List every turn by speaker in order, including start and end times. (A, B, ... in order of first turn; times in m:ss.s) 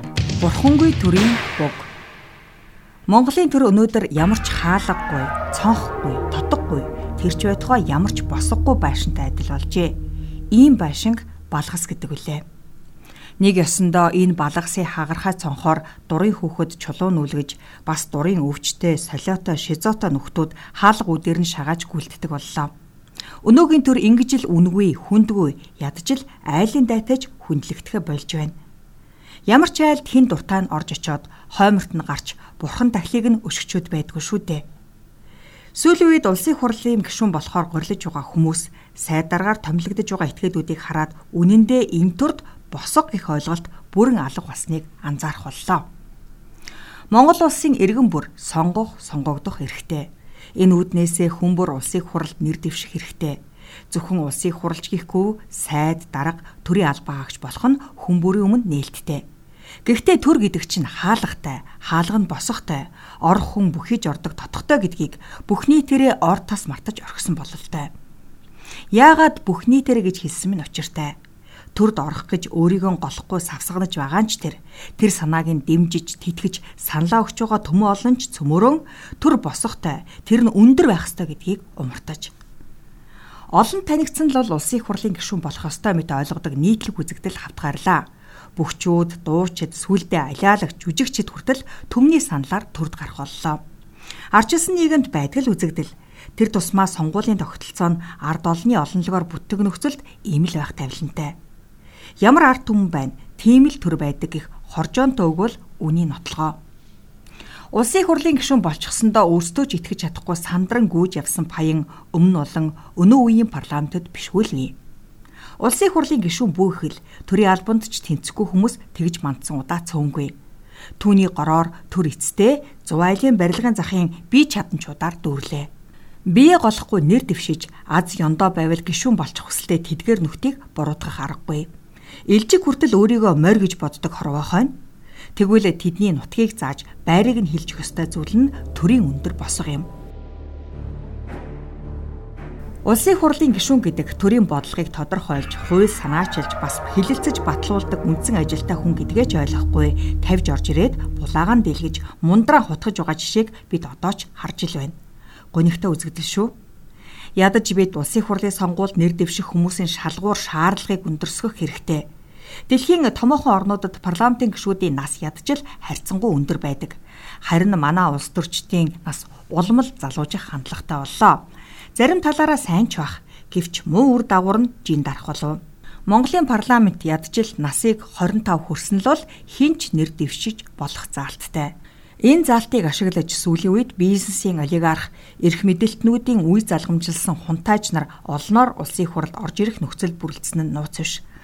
0:00.4-0:01.9 A
0:03.1-0:10.0 A
0:10.5-0:12.4 A
0:13.4-0:22.7 A
0:23.4-0:28.5 A
0:29.5-0:34.6 A
0:35.7-0:45.8 A
0:47.1-0:53.4 A
0:53.9-0:59.2 A
0:59.8-1:07.9 A
1:08.9-1:11.2 A
1:11.7-1:22.3 A
1:23.5-1:28.0 A
1:28.6-1:33.6 A
1:34.3-1:41.4 A
1:42.2-1:46.6 A
1:47.7-1:54.8 A
1:55.6-2:00.3 A
2:01.0-2:05.7 A
2:06.3-2:11.7 A
2:12.3-2:14.8 A
2:15.3-2:19.9 A
2:22.8-2:35.0 A
2:35.5-2:36.5 A
2:37.4-2:42.1 A
2:42.7-3:11.2 A